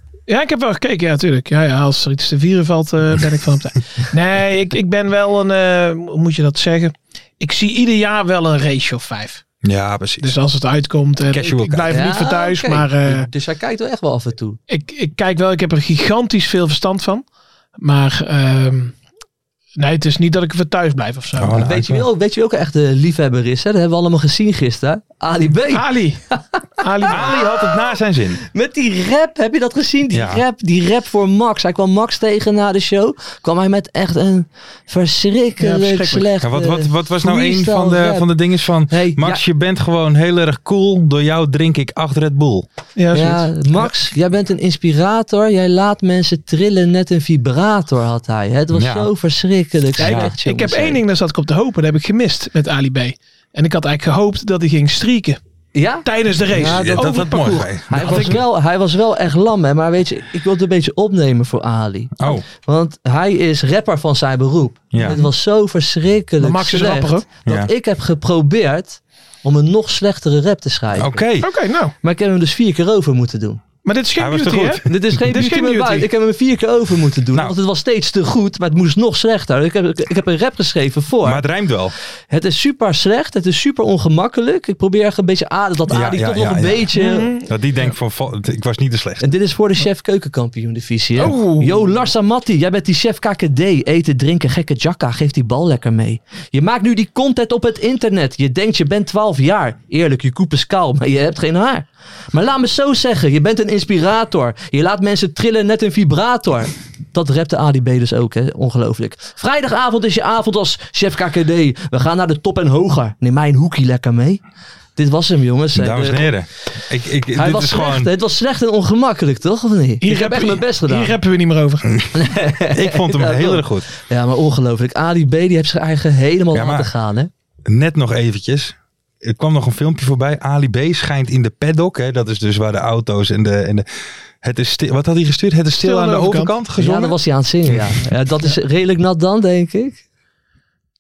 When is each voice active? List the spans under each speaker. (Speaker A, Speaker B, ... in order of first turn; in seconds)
Speaker A: 0.3-9.4, 10.2-13.3, 14.7-17.2, 17.8-18.9, 19.8-21.6, 25.7-26.2, 26.8-27.3, 35.6-36.2, 43.0-43.9, 50.0-55.4, 56.0-58.4, 66.4-67.3, 71.4-71.9, 73.8-76.1, 87.0-87.5, 91.2-91.8, 120.0-121.9, 135.8-136.5
Speaker B: 9.6-10.3, 11.3-12.0, 21.4-22.1, 27.1-28.4, 30.1-30.4, 36.4-42.7, 48.7-49.1, 50.0-50.3, 56.5-58.4, 62.2-62.5, 64.9-65.2, 71.0-71.5, 74.2-75.5, 81.2-82.0, 85.9-89.3, 115.8-118.1, 122.7-123.9, 126.5-126.9, 127.7-133.8, 134.4-137.2
Speaker C: 11.9-14.6, 21.6-26.4, 28.5-38.3, 38.9-39.4, 43.1-51.0, 55.8-71.2, 72.0-73.6, 74.8-81.4, 82.3-87.3, 89.2-114.4, 115.0-116.3, 117.3-121.2, 122.1-127.3, 136.8-140.0